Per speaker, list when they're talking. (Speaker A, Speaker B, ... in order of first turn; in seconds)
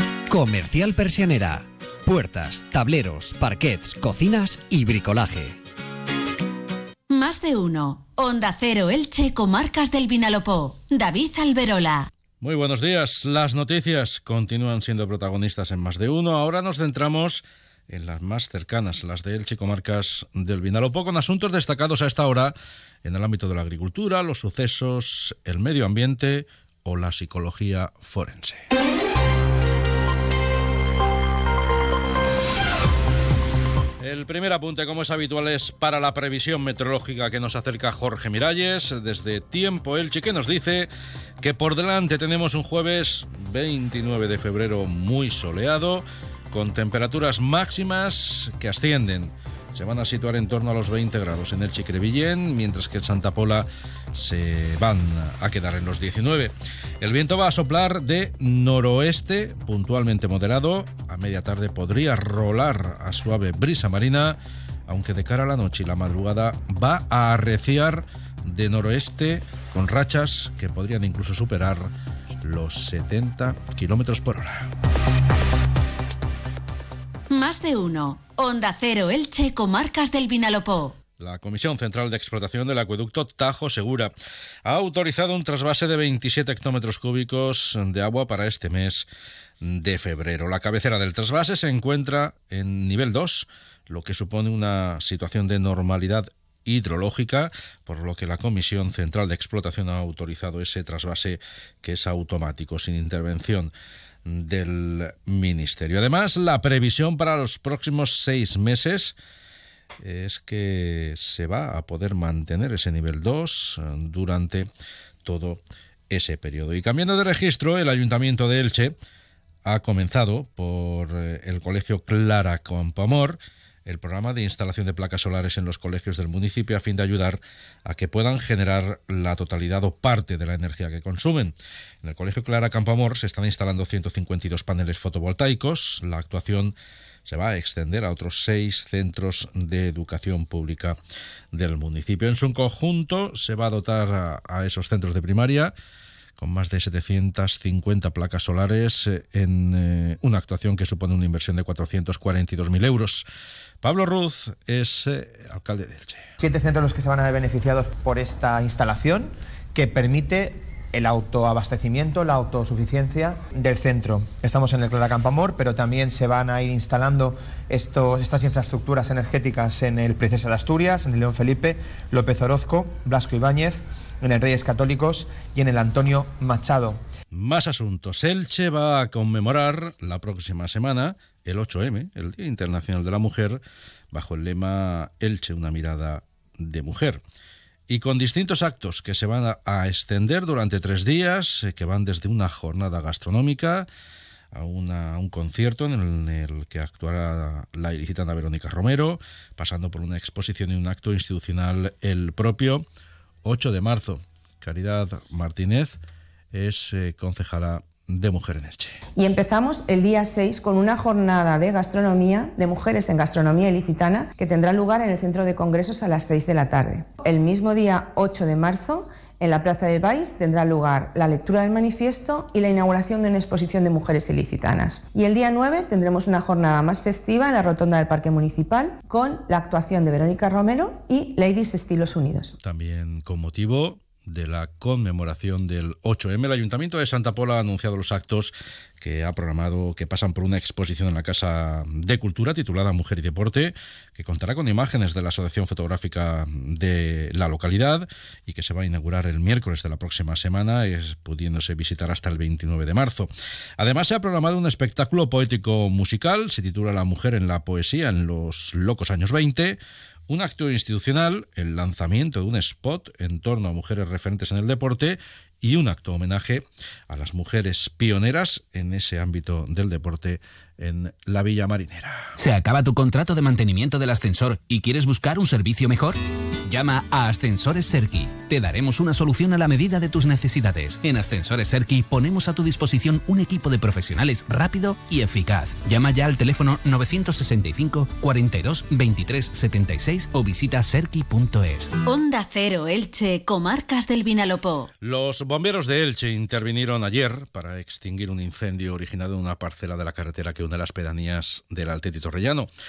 Speaker A: 0.3-5.6
Speaker B: 7.1-12.1, 77.3-81.0, 292.0-294.9
Speaker C: 12.4-28.6, 34.0-40.9, 41.4-71.9, 72.4-74.7, 81.2-84.1, 84.7-89.1, 89.6-103.7, 104.3-109.2, 110.0-114.7, 115.2-118.9, 119.7-136.8, 137.3-141.0, 141.5-145.7, 146.4-153.3, 153.8-156.2, 177.3-187.2, 187.9-193.9, 194.5-202.8, 203.4-206.0, 206.5-209.0, 232.6-272.3, 295.0-302.7
Speaker D: 156.4-177.0
Speaker E: 209.2-232.5
Speaker F: 272.4-291.9